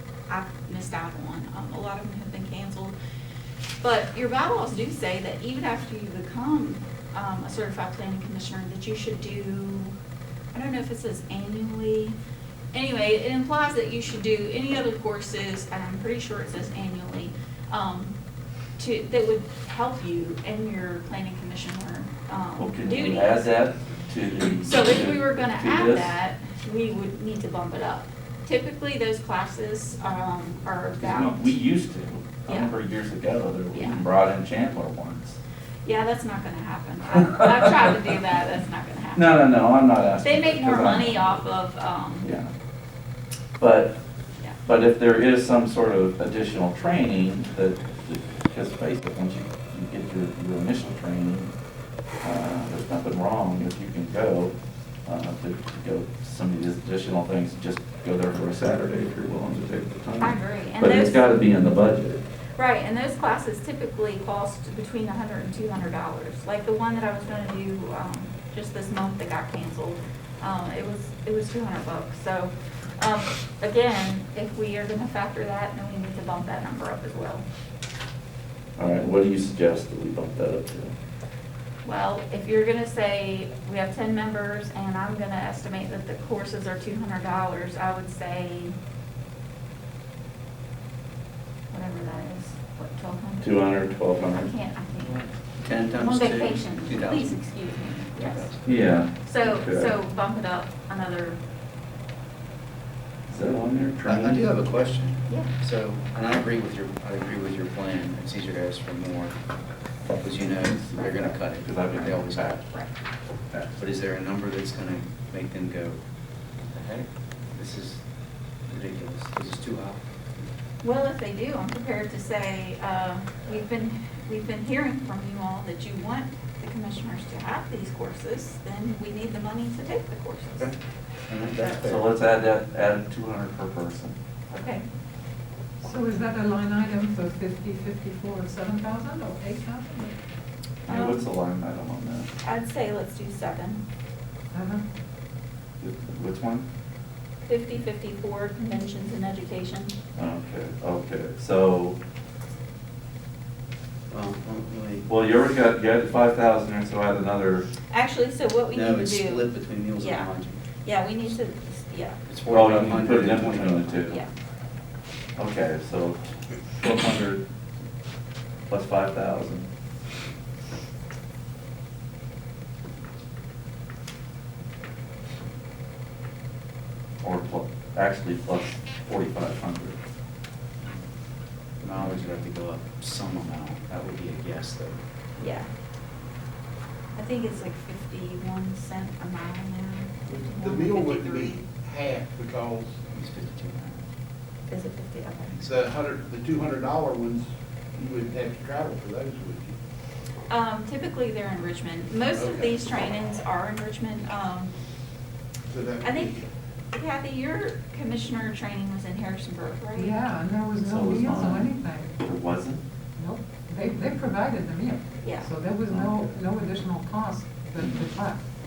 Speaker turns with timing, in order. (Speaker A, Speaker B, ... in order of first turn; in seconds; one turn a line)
Speaker A: 0.3-3.0
Speaker A: 3.8-9.9
Speaker A: 10.5-12.2
Speaker A: 12.7-18.1
Speaker A: 18.8-23.5
Speaker B: 22.6-26.2
Speaker A: 24.6-31.6
Speaker B: 31.0-35.4
Speaker A: 32.5-32.7
Speaker A: 33.7-34.0
Speaker A: 35.9-39.4
Speaker B: 37.3-37.9
Speaker B: 39.1-41.5
Speaker A: 40.2-42.3
Speaker B: 42.2-42.5
Speaker B: 43.6-44.0
Speaker B: 44.6-51.5
Speaker B: 52.2-54.5
Speaker B: 55.1-62.2
Speaker A: 60.2-61.2
Speaker A: 62.6-77.5
Speaker B: 78.8-80.9
Speaker A: 81.8-88.8
Speaker A: 91.7-93.6
Speaker B: 93.4-94.5
Speaker A: 94.3-95.3
Speaker C: 95.6-97.4
Speaker A: 95.9-98.5
Speaker C: 98.2-98.8
Speaker B: 98.7-100.0
Speaker A: 99.2-101.4
Speaker B: 103.3-104.5
Speaker C: 104.0-109.3
Speaker C: 110.2-112.6
Speaker B: 110.7-112.6
Speaker A: 110.9-111.3
Speaker A: 112.6-112.9
Speaker C: 113.7-116.0
Speaker C: 116.6-118.0
Speaker C: 118.7-120.0
Speaker A: 120.8-130.7
Speaker C: 131.3-132.1
Speaker A: 131.5-131.8
Speaker B: 131.7-134.2
Speaker A: 134.5-134.8
Speaker D: 135.8-140.2
Speaker B: 140.9-142.3
Speaker A: 140.9-141.2
Speaker A: 142.4-143.8
Speaker D: 144.5-144.8
Speaker B: 145.8-146.7
Speaker A: 147.5-149.9
Speaker B: 150.2-152.0
Speaker C: 154.1-155.1
Speaker B: 155.1-157.7
Speaker A: 157.9-160.3
Speaker C: 158.7-160.6
Speaker A: 160.8-162.2
Speaker C: 162.3-164.0
Speaker B: 162.5-164.2
Speaker B: 165.4-167.4
Speaker B: 168.7-169.7
Speaker B: 177.2-180.0
Speaker C: 181.8-185.0
Speaker B: 181.9-182.2
Speaker A: 185.4-185.7
Speaker A: 187.2-191.7
Speaker E: 190.3-193.0
Speaker C: 193.1-194.0
Speaker A: 194.7-195.6
Speaker E: 195.6-199.7
Speaker A: 200.5-204.7
Speaker E: 202.3-202.8
Speaker E: 205.7-206.5
Speaker A: 206.0-206.4
Speaker A: 206.9-210.2
Speaker D: 209.9-212.2
Speaker B: 210.8-212.8
Speaker D: 213.2-218.4
Speaker A: 215.2-215.5
Speaker B: 215.9-216.3
Speaker B: 217.8-218.1